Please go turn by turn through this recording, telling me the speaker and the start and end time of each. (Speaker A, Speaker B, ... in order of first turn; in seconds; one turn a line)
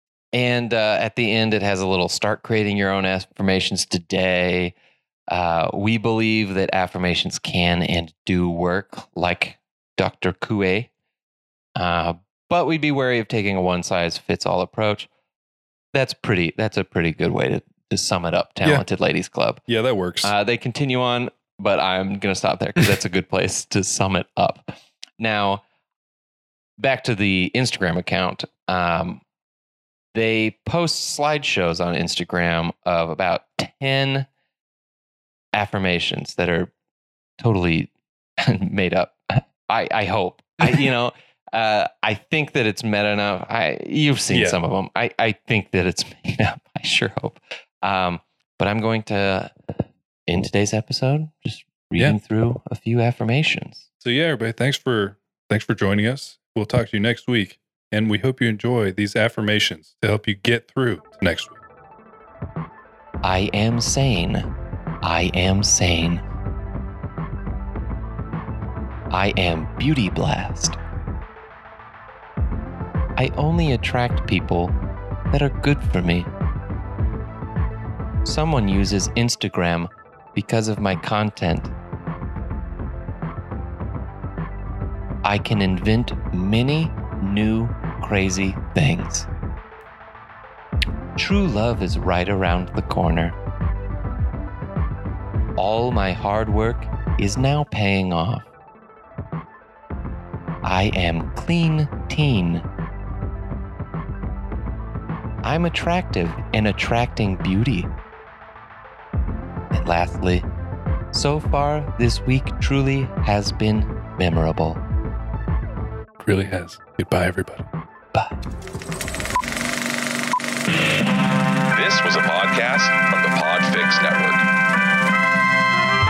Speaker A: 0.3-4.8
Speaker A: 5.3-10.9
Speaker A: 11.8-15.1
Speaker A: 15.9-19.6
Speaker B: 19.7-20.3
Speaker A: 20.2-25.6
Speaker A: 26.8-29.2
Speaker A: 30.1-34.3
Speaker A: 35.5-36.7
Speaker A: 37.4-53.9
Speaker B: 44.3-44.6
Speaker B: 54.0-61.6
Speaker A: 63.2-64.5
Speaker A: 65.0-66.2
Speaker A: 69.1-70.8
Speaker A: 73.2-74.8
Speaker A: 75.3-76.3
Speaker A: 78.2-81.7
Speaker A: 85.2-89.3
Speaker A: 91.2-93.4
Speaker A: 95.6-98.5
Speaker A: 100.6-102.7
Speaker A: 105.4-107.9
Speaker A: 109.7-110.5
Speaker A: 111.1-114.8
Speaker B: 116.2-117.6
Speaker C: 121.7-124.5